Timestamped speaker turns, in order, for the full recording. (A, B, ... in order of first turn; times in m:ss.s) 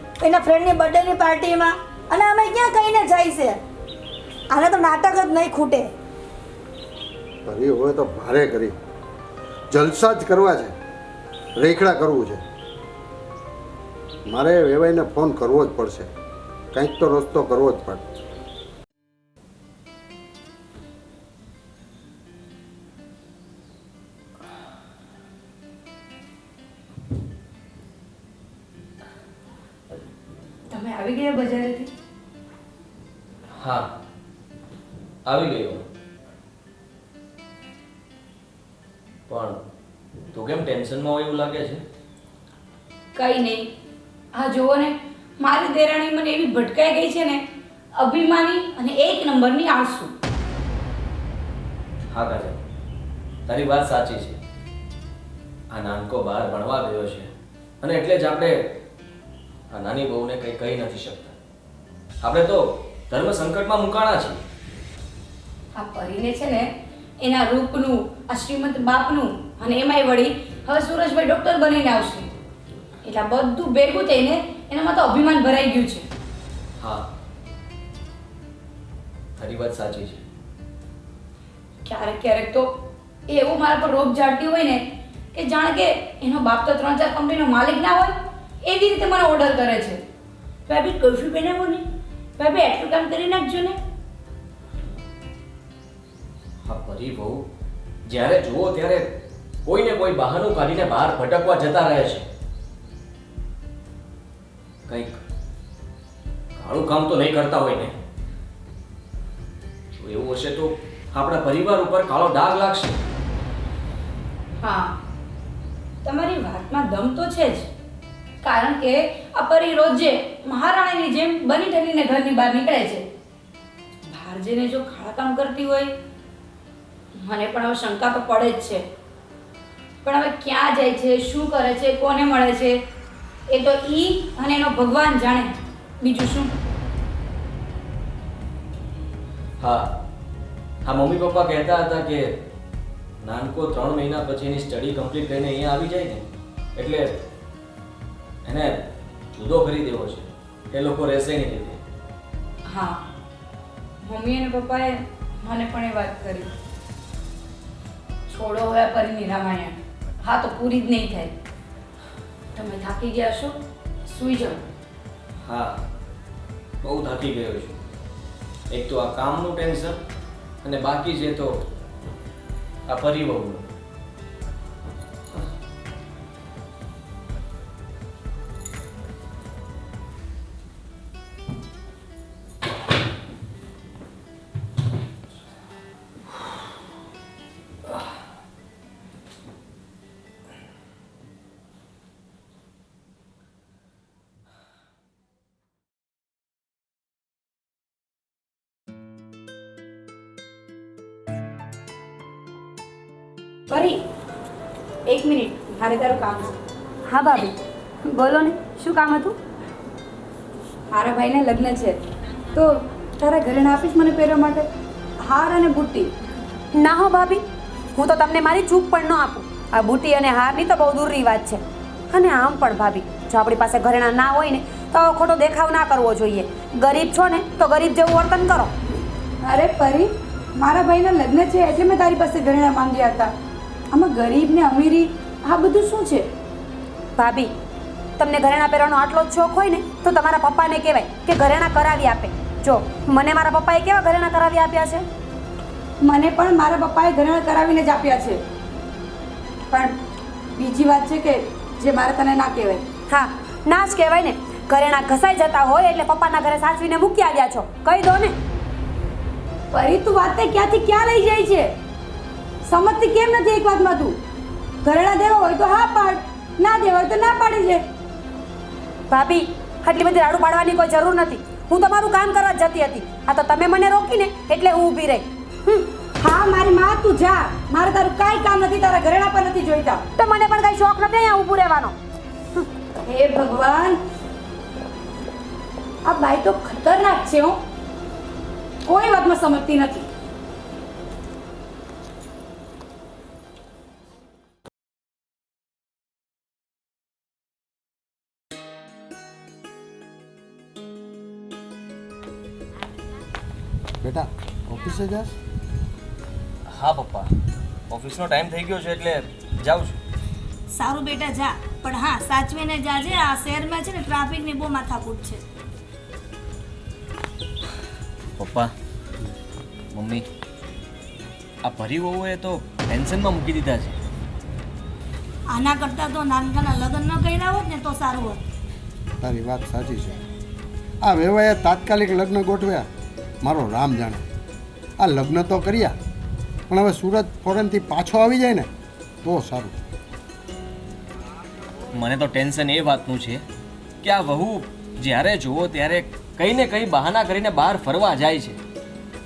0:00.2-0:03.6 A
0:04.5-0:05.9 A
0:07.4-0:08.8 B
0:09.7-0:10.8 B
0:11.6-0:12.4 B
0:14.3-0:16.1 B
0:16.7-0:18.0 B
0:30.7-0:31.9 C
0:33.6-0:33.9 D
0:35.2-0:35.8 D
0:39.3-0:39.6 D
0:40.3-0:41.8 D
0:43.1-0:43.7 C
0:44.4-0:47.4 C
0:48.0-0:50.1 C
0:52.1-0:52.6 D
0:53.5-0:54.4 D
0:55.7-0:57.3 D
0:57.8-0:58.6 D
0:59.7-1:01.3 D
1:02.2-1:04.4 D
1:05.8-1:06.7 C
1:07.2-1:12.3 C
1:13.0-1:16.1 C
1:16.8-1:17.1 D
1:19.4-1:20.2 D
1:21.8-1:22.8 C
1:23.3-1:30.0 C
1:30.7-1:31.8 C
1:32.4-1:33.8 C
1:36.6-1:37.4 D
1:38.1-1:39.1 D
1:39.6-1:42.3 D
1:44.9-1:45.2 D
1:46.6-1:47.9 D
1:50.0-1:53.0 D
1:54.6-1:55.0 C
1:56.0-1:57.7 C
1:58.4-2:03.1 C
2:04.1-2:05.9 C
2:07.2-2:08.8 C
2:10.0-2:12.8 C
2:13.5-2:16.5 C
2:19.6-2:19.9 D
2:20.8-2:22.3 D
2:23.2-2:27.2 D
2:28.4-2:31.8 D
2:32.7-2:33.0 C
2:34.0-2:36.5 C
2:38.3-2:41.3 C
2:42.6-2:44.6 C
2:45.4-2:45.8 D
2:46.8-2:47.8 D
2:48.7-2:50.0 D
2:50.6-2:51.5 D
2:52.9-2:53.7 D
3:23.7-3:24.0 C
3:25.1-3:26.6 C
3:27.1-3:29.4 E
3:30.9-3:32.0 C
3:32.6-3:34.7 C
3:35.2-3:36.1 C
3:36.7-3:37.4 E
3:37.9-3:48.7 E
3:49.4-3:53.3 C
3:53.9-3:56.2 C
3:57.2-3:57.5 E
3:58.2-4:05.0 E
4:06.0-4:08.4 C
4:10.6-4:12.8 C
4:13.1-4:18.4 E
4:19.7-4:21.7 C
4:22.6-4:24.2 C
4:24.8-4:27.8 C
4:29.1-4:35.9 E
4:36.2-4:40.0 C
4:40.2-4:42.0 E
4:43.1-4:44.0 C
4:46.0-4:47.6 C
4:48.8-4:50.1 C
5:04.0-5:05.3 B
5:06.7-5:07.3 D
5:07.9-5:10.0 D
5:10.7-5:15.4 A
5:18.4-5:18.7 D
5:19.9-5:20.2 D
5:21.6-5:24.0 D
5:25.5-5:28.4 A
5:29.2-5:30.2 B
5:31.0-5:32.9 B
5:33.4-5:34.2 B
5:35.0-5:36.0 B
5:36.7-5:38.7 B
5:39.2-5:39.7 B
5:41.9-5:43.4 D
5:44.0-5:48.6 D